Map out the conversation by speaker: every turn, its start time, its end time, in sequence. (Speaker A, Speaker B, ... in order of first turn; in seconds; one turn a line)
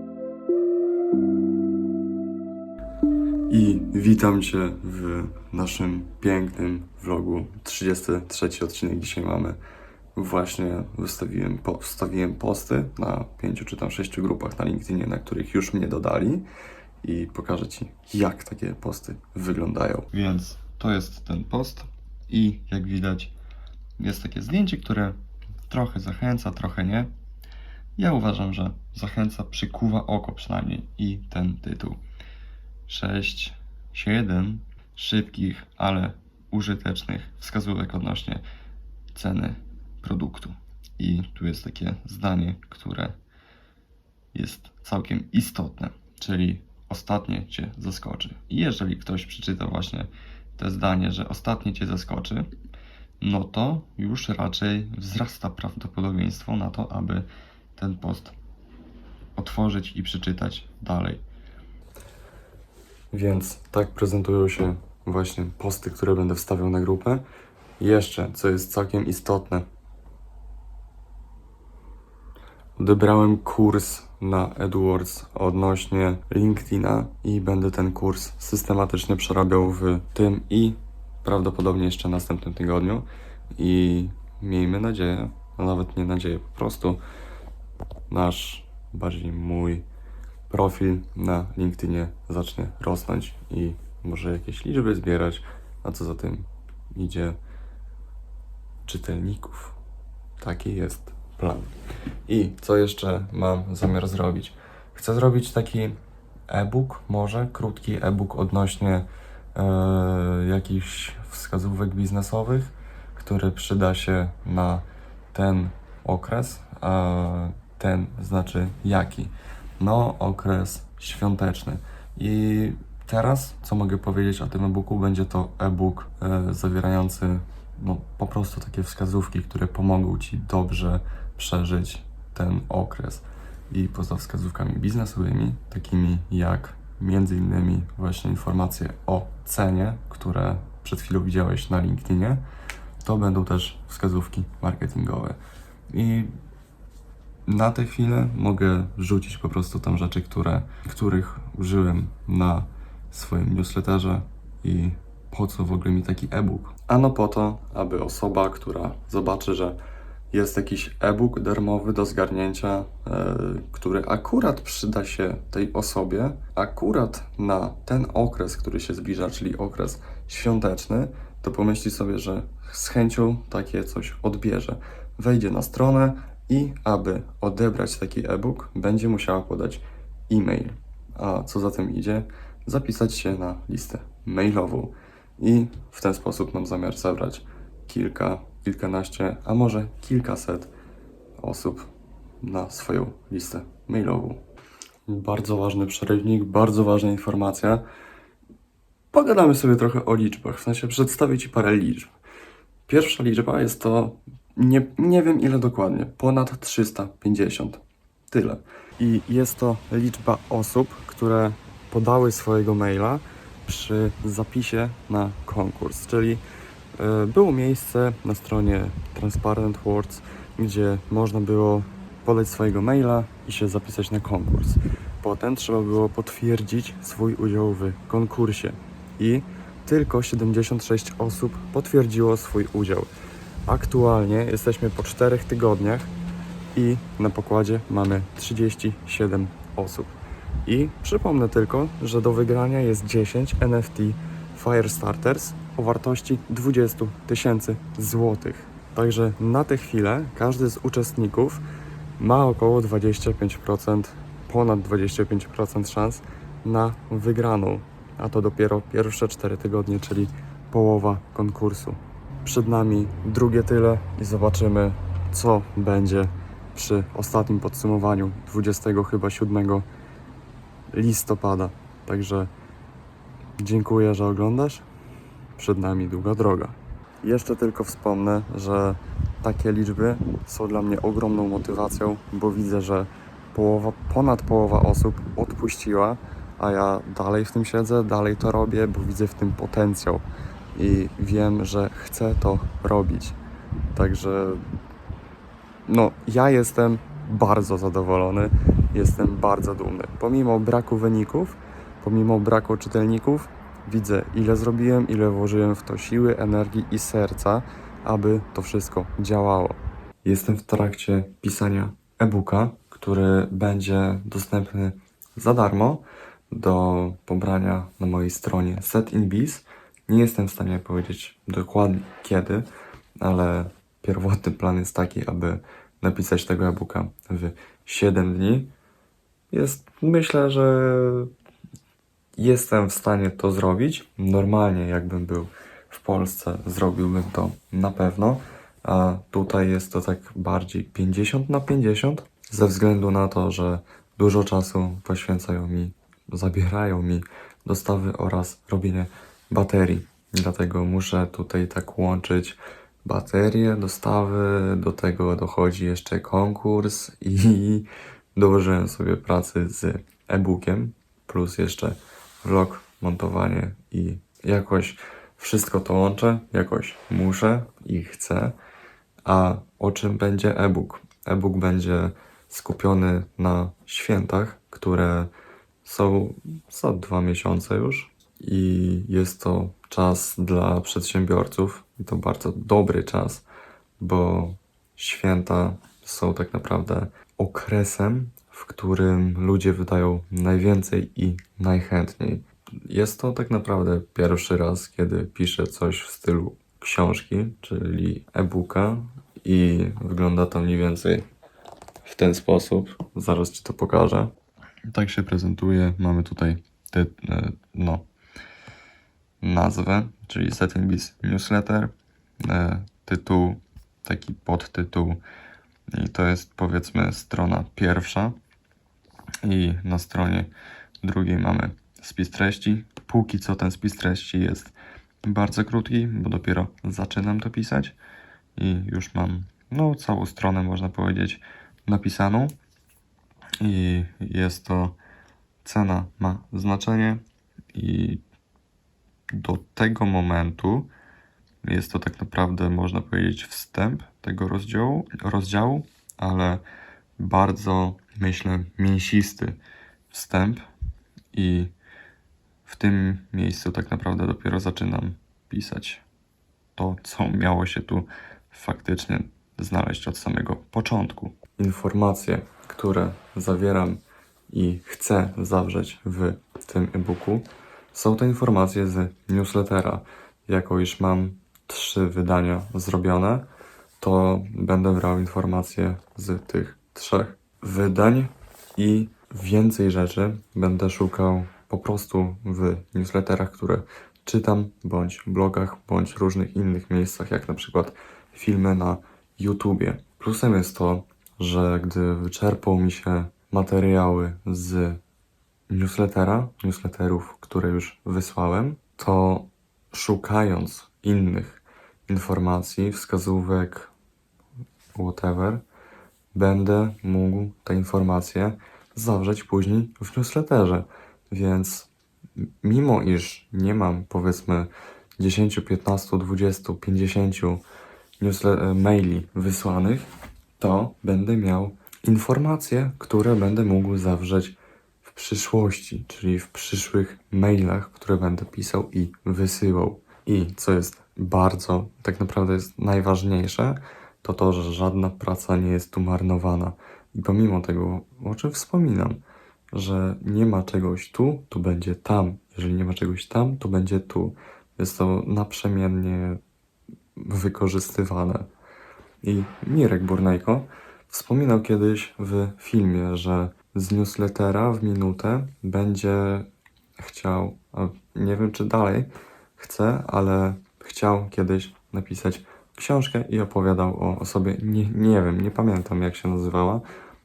Speaker A: 3.5-9.6
Speaker A: 10.2-16.5
Speaker A: 17.0-23.3
Speaker A: 24.0-25.2
Speaker A: 25.7-27.1
Speaker A: 28.0-32.0
Speaker A: 32.9-38.4
Speaker A: 39.1-43.1
Speaker A: 44.3-52.5
Speaker A: 53.2-58.4
Speaker A: 59.4-61.2
Speaker A: 63.1-67.2
Speaker A: 67.8-69.7
Speaker A: 72.8-87.0
Speaker A: 88.1-89.9
Speaker A: 90.5-97.4
Speaker A: 98.8-99.8
Speaker A: 100.4-101.7
Speaker A: 102.3-142.4
Speaker A: 143.0-145.4
Speaker A: 145.9-146.3
Speaker A: 147.5-159.8
Speaker A: 160.3-190.7
Speaker A: 191.4-191.9
Speaker A: 192.4-194.4
Speaker A: 195.1-197.8
Speaker A: 199.1-202.1
Speaker A: 202.9-216.4
Speaker A: 217.0-233.1
Speaker A: 233.7-236.1
Speaker A: 236.8-251.6
Speaker A: 252.2-269.9
Speaker A: 270.9-272.5
Speaker A: 273.6-274.9
Speaker A: 275.6-293.4
Speaker A: 293.9-294.7
Speaker A: 295.9-322.7
Speaker A: 323.2-328.7
Speaker A: 329.5-331.3
Speaker A: 332.4-368.6
Speaker A: 369.2-375.3
Speaker A: 375.8-383.4
Speaker A: 384.0-401.3
Speaker A: 402.0-404.3
Speaker A: 404.9-408.1
Speaker A: 409.4-415.2
Speaker A: 415.9-418.4
Speaker A: 419.4-428.0
Speaker A: 428.6-432.5
Speaker A: 433.6-435.0
Speaker A: 435.6-437.2
Speaker A: 437.7-438.2
Speaker A: 439.3-440.9
Speaker A: 441.6-446.6
Speaker A: 447.2-449.6
Speaker A: 450.1-450.7
Speaker A: 451.3-451.7
Speaker A: 452.6-456.0
Speaker A: 456.8-473.5
Speaker A: 474.0-495.0
Speaker A: 495.7-503.9
Speaker A: 504.9-505.6
Speaker A: 506.3-517.6
Speaker A: 518.2-539.2
Speaker A: 539.7-546.4
Speaker A: 547.2-548.5
Speaker A: 549.2-566.9